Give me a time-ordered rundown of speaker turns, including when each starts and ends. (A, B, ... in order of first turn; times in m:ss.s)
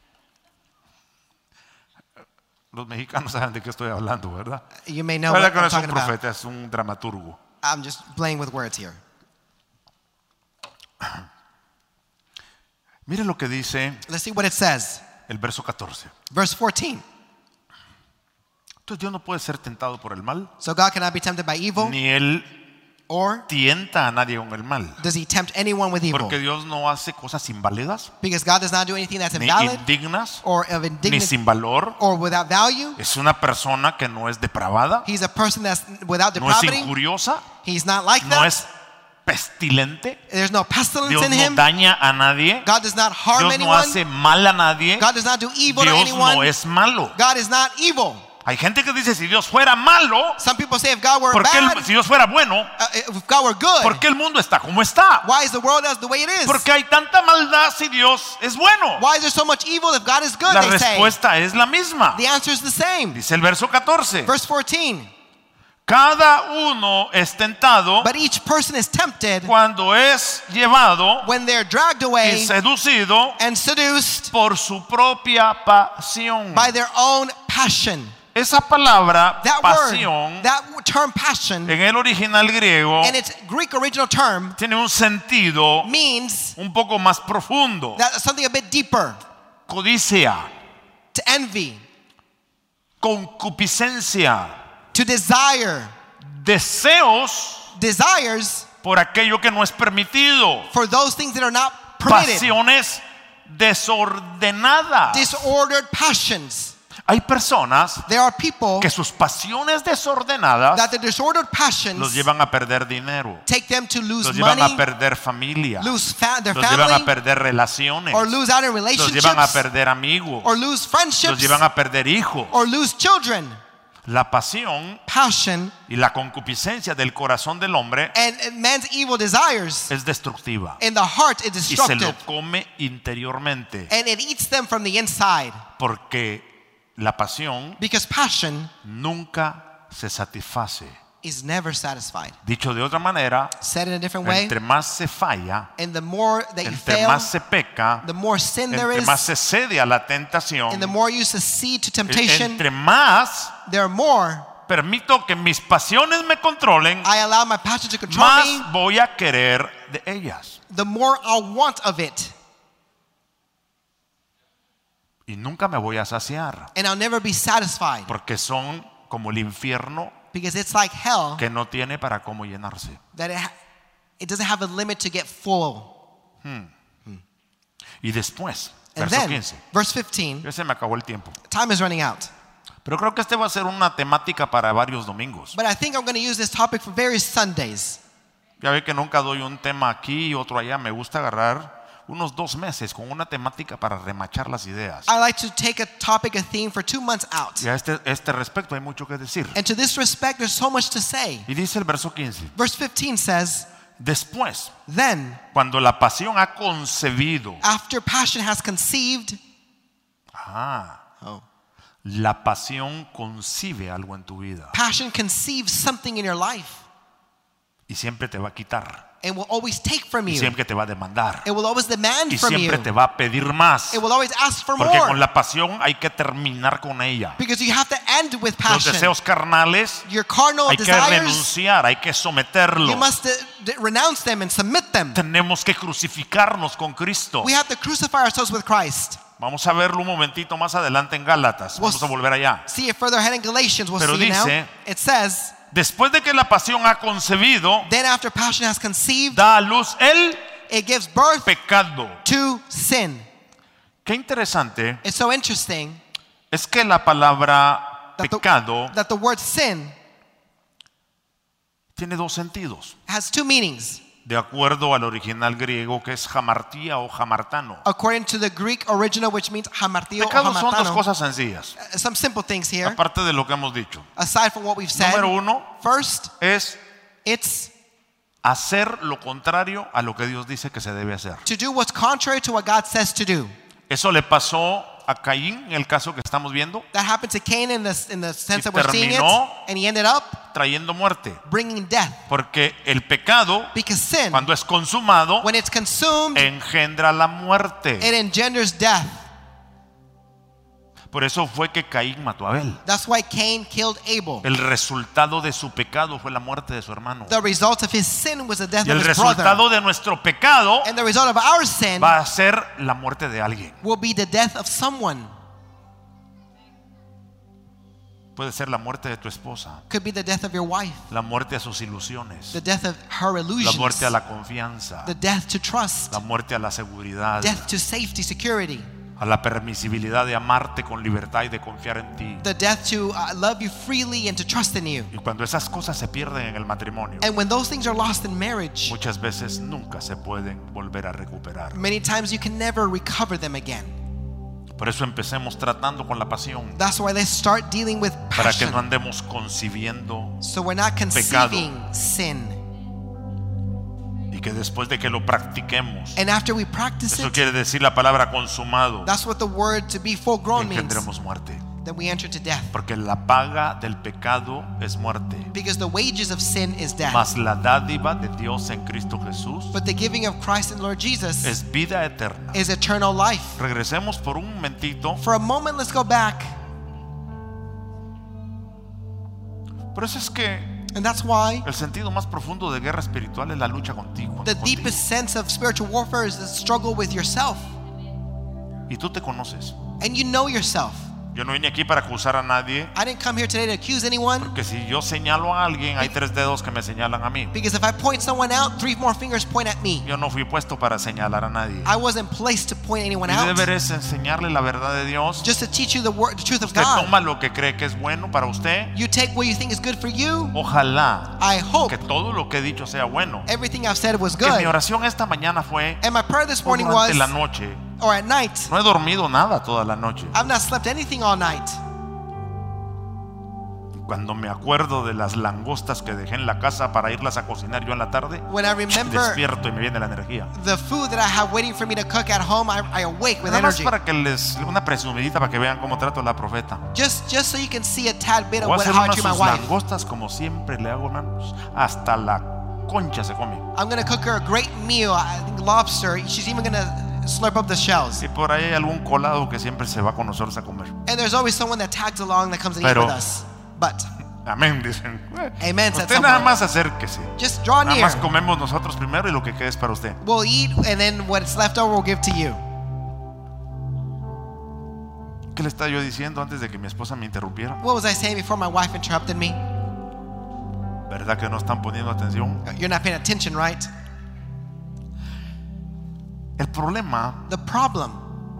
0:02.7-0:04.6 A
0:04.8-0:06.1 B
0:05.3-0:07.4 A
0:07.6-0:09.0 B
0:11.0-0:11.3 A
0:13.0-0:14.0 A
0:14.1-0:15.0 B
0:15.3-0:16.1 A
0:16.3-0:17.0 B
0:18.8-0:20.5 A
0:20.6-0:22.0 B
0:21.8-0:22.5 A
0:23.1-0:23.4 B
0:23.5-0:25.0 A
0:25.0-0:26.4 B
0:26.1-0:28.1 A
0:28.2-0:29.8 B
0:29.3-0:30.4 A
0:30.4-0:31.3 B
0:31.0-0:32.0 A
0:32.0-0:33.0 B
0:33.0-0:35.1 A
0:35.0-0:36.9 B
0:36.4-0:37.5 A
0:37.6-0:38.6 B
0:38.2-0:38.7 A
0:39.2-0:40.2 A
0:40.3-0:41.6 B
0:41.0-0:42.7 A
0:42.6-0:44.0 B
0:43.3-0:45.1 A
0:45.0-0:46.5 B
0:45.7-0:47.2 A
0:47.1-0:48.2 B
0:48.4-0:50.4 A
0:50.4-0:51.9 B
0:51.3-0:52.7 A
0:52.8-0:54.0 B
0:53.8-0:55.3 A
0:55.2-0:56.6 B
0:56.4-0:59.0 A
0:59.0-1:01.1 B
1:00.4-1:02.2 A
1:02.1-1:03.2 B
1:03.1-1:04.3 A
1:04.2-1:05.1 B
1:05.8-1:08.1 A
1:08.0-1:09.5 B
1:09.4-1:11.3 A
1:11.2-1:12.5 B
1:12.2-1:13.4 A
1:13.4-1:14.3 B
1:14.3-1:16.7 A
1:16.5-1:18.2 B
1:18.3-1:20.5 A
1:19.4-1:21.8 B
1:21.6-1:23.2 A
1:23.0-1:24.6 B
1:24.6-1:25.9 A
1:25.8-1:26.6 B
1:26.6-1:28.0 A
1:28.0-1:29.2 B
1:29.7-1:30.5 A
1:31.1-1:31.8 B
1:33.0-1:34.5 A
1:34.9-1:35.9 B
1:36.2-1:37.7 A
1:37.7-1:38.7 B
1:38.8-1:40.7 A
1:40.7-1:42.5 B
1:42.0-1:45.5 A
1:45.1-1:46.7 B
1:47.1-1:48.1 A
1:48.1-1:48.9 B
1:48.8-1:50.9 A
1:50.7-1:52.2 B
1:52.0-1:53.4 A
1:53.4-1:54.8 B
1:54.2-1:55.9 A
1:55.8-1:57.1 B
1:56.5-1:58.4 A
1:58.1-1:59.6 B
1:59.0-2:00.5 A
2:00.4-2:01.6 B
2:01.2-2:02.6 A
2:02.5-2:03.6 B
2:04.0-2:05.0 A
2:05.1-2:05.7 B
2:05.9-2:08.1 A
2:08.1-2:09.9 B
2:09.9-2:10.8 A
2:10.8-2:12.2 B
2:11.7-2:13.9 A
2:13.9-2:15.6 B
2:15.8-2:17.8 A
2:17.8-2:18.7 B
2:18.8-2:21.0 A
2:21.2-2:22.4 B
2:22.4-2:23.5 A
2:23.6-2:24.5 B
2:24.2-2:25.7 A
2:25.8-2:27.3 B
2:26.6-2:28.0 A
2:28.0-2:29.3 B
2:28.7-2:30.9 A
2:30.7-2:32.6 B
2:32.1-2:33.5 A
2:33.6-2:34.5 B
2:34.7-2:37.1 A
2:37.0-2:38.7 B
2:38.1-2:40.6 A
2:40.7-2:42.3 B
2:45.3-2:46.7 A
2:46.7-2:48.1 B
2:48.1-2:50.1 A
2:50.3-2:51.4 B
2:51.4-2:53.0 A
2:53.1-2:53.5 B
2:54.2-2:55.9 B
2:56.4-2:56.7 A
2:58.0-2:59.6 A
2:58.9-3:00.5 B
3:00.4-3:01.4 A
3:01.5-3:02.3 B
3:02.8-3:05.6 A
3:05.5-3:08.0 B
3:08.6-3:15.1 A
3:15.1-3:17.6 B
3:17.6-3:19.6 A
3:19.5-3:21.5 B
3:21.5-3:22.5 A
3:22.6-3:23.7 B
3:24.0-3:24.7 A
3:24.9-3:25.4 B
3:25.5-3:27.6 A
3:27.6-3:29.4 B
3:30.3-3:31.0 A
3:32.0-3:34.7 A
3:34.7-3:36.8 B
3:37.9-3:39.0 A
3:39.2-3:40.6 B
3:40.3-3:41.5 A
3:41.4-3:42.9 B
3:42.3-3:44.0 A
3:43.9-3:45.2 B
3:44.8-3:47.4 A
3:47.4-3:49.1 B
3:48.6-3:50.0 A
3:50.0-3:51.5 B
3:50.6-3:53.1 A
3:52.8-3:55.2 B
3:55.1-3:57.5 A
3:57.4-3:59.2 B
3:59.4-4:02.6 A
4:01.7-4:02.1 B
4:02.6-4:05.6 B
4:04.0-4:04.7 A
4:05.7-4:07.9 A
4:07.8-4:09.4 B
4:09.3-4:10.4 A
4:10.7-4:11.5 B
4:11.4-4:12.2 A
4:12.2-4:13.2 B
4:14.0-4:15.0 A
4:15.0-4:16.0 B
4:16.5-4:18.9 A
4:18.2-4:19.9 B
4:21.9-4:22.9 A
4:23.1-4:24.0 B
4:24.2-4:27.8 A
4:27.8-4:31.0 B
4:30.2-4:31.8 A
4:31.8-4:33.0 B
4:32.8-4:34.1 A
4:34.2-4:36.3 B
4:34.9-4:35.7 A
4:36.4-4:36.8 A
4:37.2-4:37.7 B
4:38.4-4:41.4 A
4:41.4-4:43.5 B
4:43.9-4:46.9 A
4:46.9-4:50.4 B
4:48.5-4:49.6 A
4:50.5-4:51.4 A
4:51.4-4:52.2 B
4:52.3-4:53.7 A
4:53.7-4:54.5 B
4:54.3-4:55.5 A
4:55.4-4:56.5 B
4:56.3-4:58.1 A
4:58.0-4:59.2 B
5:01.1-5:02.8 A
5:02.8-5:04.4 B
5:04.4-5:07.4 A
5:07.3-5:09.6 B
5:08.8-5:10.9 A
5:10.8-5:12.1 B
5:12.0-5:13.8 A
5:13.8-5:15.3 B
5:18.4-5:19.8 A
5:19.9-5:21.0 B
5:21.1-5:22.6 A
5:22.5-5:24.1 B
5:23.6-5:25.1 A
5:25.0-5:26.2 B
5:26.1-5:27.7 A
5:27.4-5:28.9 B
5:29.2-5:32.4 A
5:32.4-5:35.1 B
5:35.1-5:37.3 A
5:37.2-5:39.0 B
5:38.8-5:41.8 A
5:41.7-5:44.0 B
5:44.7-5:46.8 A
5:46.8-5:48.8 B
5:48.4-5:50.4 A
5:50.4-5:52.6 B
5:51.1-5:51.7 A
5:54.3-5:56.2 A
5:56.2-5:57.4 B
5:57.1-5:59.1 A
5:59.0-6:01.0 B
6:00.5-6:01.6 A
6:01.8-6:02.7 B
6:02.7-6:05.5 A
6:05.5-6:07.3 B
6:07.1-6:09.8 A
6:09.7-6:11.5 B
6:11.4-6:12.6 A
6:12.5-6:13.6 B
6:13.6-6:15.2 A
6:15.2-6:16.5 B
6:19.9-6:20.9 A
6:20.9-6:21.7 B
6:21.6-6:25.0 A
6:24.4-6:27.6 B
6:28.9-6:29.8 A
6:30.0-6:31.1 B
6:31.3-6:32.9 A
6:32.9-6:34.5 B
6:34.4-6:37.6 A
6:37.5-6:40.0 B
6:40.0-6:41.9 A
6:41.8-6:43.7 B
6:43.2-6:45.5 A
6:45.4-6:47.1 B
6:46.6-6:48.9 A
6:48.9-6:50.6 B
6:50.5-6:53.5 A
6:51.4-6:52.0 B
6:53.5-6:54.8 B
6:54.4-6:56.0 A
6:56.0-6:57.3 B
6:56.6-6:57.8 A
6:58.0-6:58.7 B
6:58.7-7:00.3 A
7:00.3-7:01.8 B
7:03.9-7:10.5 A
7:08.5-7:09.4 B
7:10.5-7:13.9 B
7:13.4-7:16.8 A
7:16.9-7:19.7 B
7:18.6-7:23.6 A
7:23.7-7:28.2 B
7:28.2-7:30.9 A
7:31.0-7:34.1 B
7:32.8-7:33.2 A
7:34.4-7:40.2 A
7:35.6-7:36.5 B
7:37.4-7:38.2 B
7:40.2-7:42.6 B
7:45.5-7:47.8 A
7:47.8-7:49.6 B
7:51.1-7:52.6 A
7:52.6-7:53.9 B
7:56.6-7:57.4 A
7:57.5-7:58.2 B